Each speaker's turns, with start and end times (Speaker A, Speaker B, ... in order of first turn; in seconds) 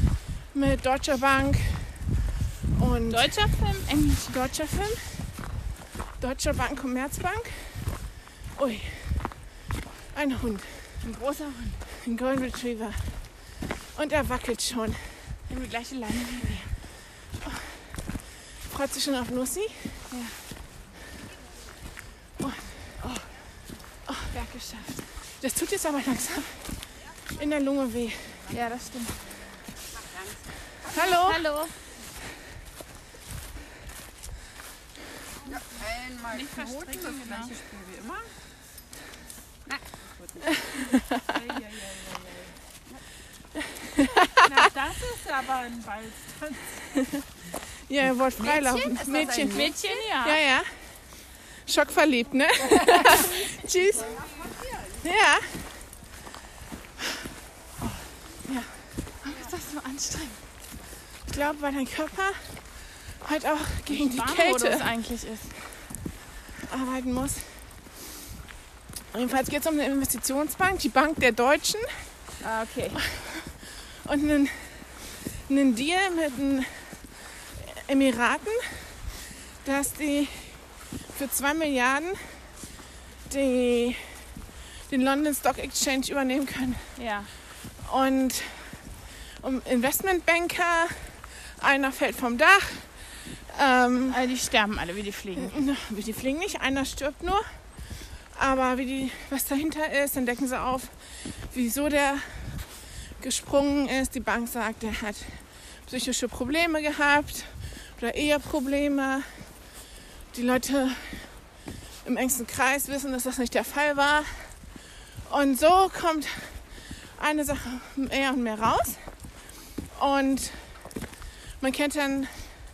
Speaker A: 0.5-2.0, 2.8-3.3, 4.3-5.3, 6.2-7.9, 8.6-9.3, 10.1-11.0, 11.9-13.2, 13.9-15.0, 17.4-17.8, 18.7-20.0, 22.4-23.1, 24.1-24.4, 25.4-28.6, 30.9-31.5, 43.8-44.2, 47.9-50.7, 51.6-54.2, 55.0-55.7, 58.5-58.7, 61.3-62.6, 63.2-64.9, 66.7-67.6, 69.1-71.9, 73.0-78.9, 79.6-82.2, 83.3-84.0, 84.9-86.9, 87.8-88.8, 89.4-92.9, 93.5-94.2, 95.4-97.5, 98.3-109.4, 110.3-111.3, 112.0-114.5, 115.3-116.6, 117.2-119.0, 119.9-120.6, 121.6-122.4
Speaker B: 3.1-4.3, 11.0-11.8, 15.5-16.7, 20.1-20.4, 24.3-25.0, 28.5-29.2, 30.9-31.8, 36.3-37.5, 49.2-50.4, 59.2-60.4, 63.9-65.5, 72.4-73.0, 87.0-87.3, 94.1-95.6
Speaker C: 30.0-31.1, 35.5-38.3, 39.7-42.6, 44.2-46.9, 48.4-50.0, 52.8-54.9